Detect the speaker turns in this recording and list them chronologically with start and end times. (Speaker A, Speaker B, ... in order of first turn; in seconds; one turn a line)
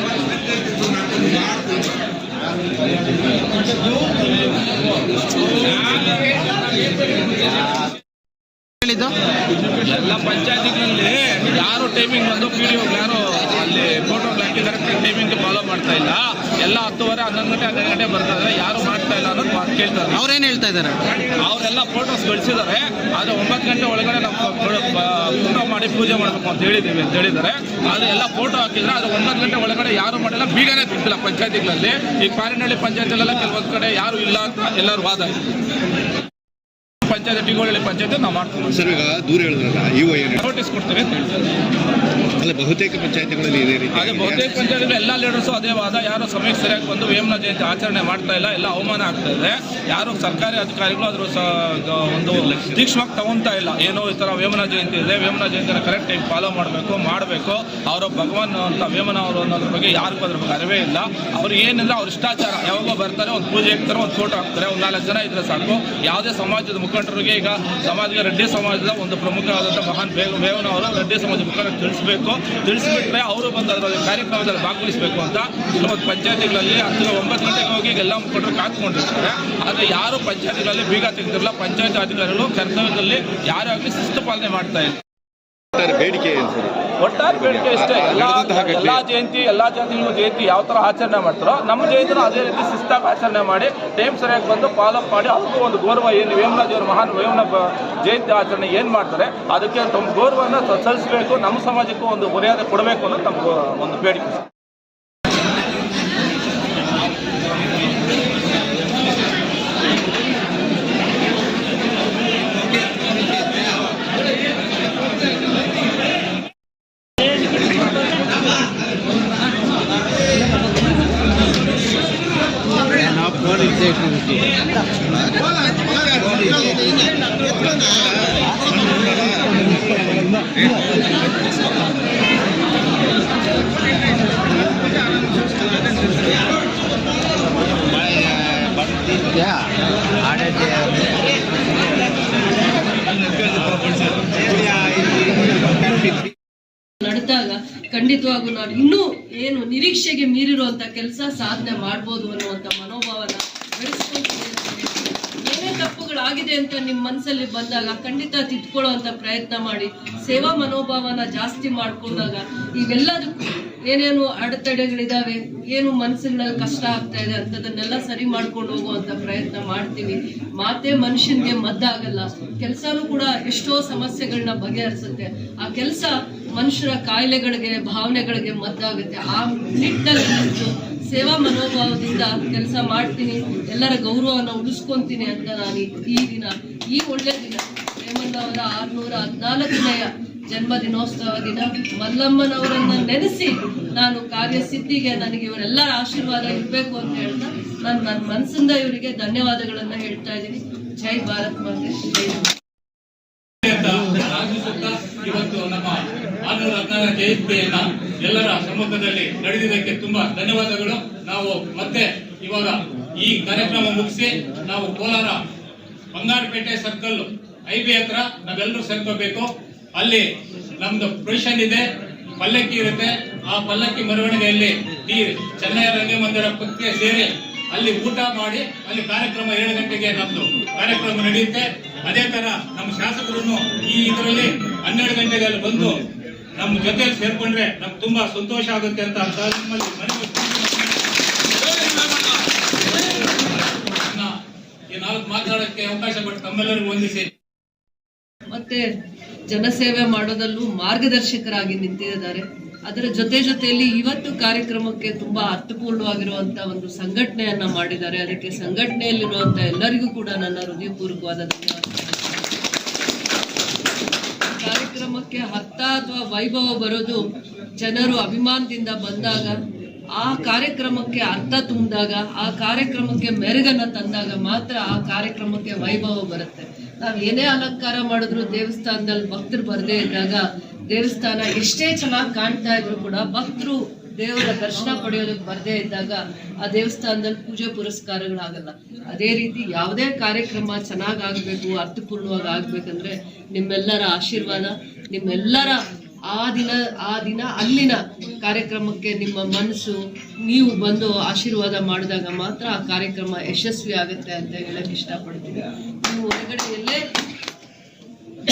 Speaker A: 5.7-6.1
Speaker B: 8.8-9.1
Speaker A: 9.8-20.3
Speaker B: 20.2-21.0
Speaker A: 21.4-35.3
Speaker A: 37.0-38.8
Speaker C: 38.7-40.4
Speaker A: 40.4-41.5
Speaker C: 42.4-44.5
Speaker A: 43.9-85.0
Speaker C: 52.5-52.8
Speaker C: 85.7-89.0
Speaker A: 87.0-104.4
Speaker B: 123.0-124.5
Speaker B: 126.0-127.1
Speaker B: 127.7-128.2
Speaker B: 128.8-130.4
Speaker B: 137.9-139.7
Speaker B: 140.2-141.1
Speaker B: 143.2-143.8
Speaker B: 144.4-146.3
Speaker D: 147.0-202.5
Speaker E: 203.7-215.4
Speaker E: 216.1-220.2
Speaker E: 220.8-221.8
Speaker E: 222.4-235.9
Speaker E: 236.6-242.3
Speaker E: 244.0-244.3
Speaker E: 244.9-247.3
Speaker D: 248.5-248.8
Speaker D: 249.5-262.5
Speaker D: 264.5-267.2
Speaker D: 267.8-269.6
Speaker D: 270.1-295.8
Speaker D: 296.3-307.0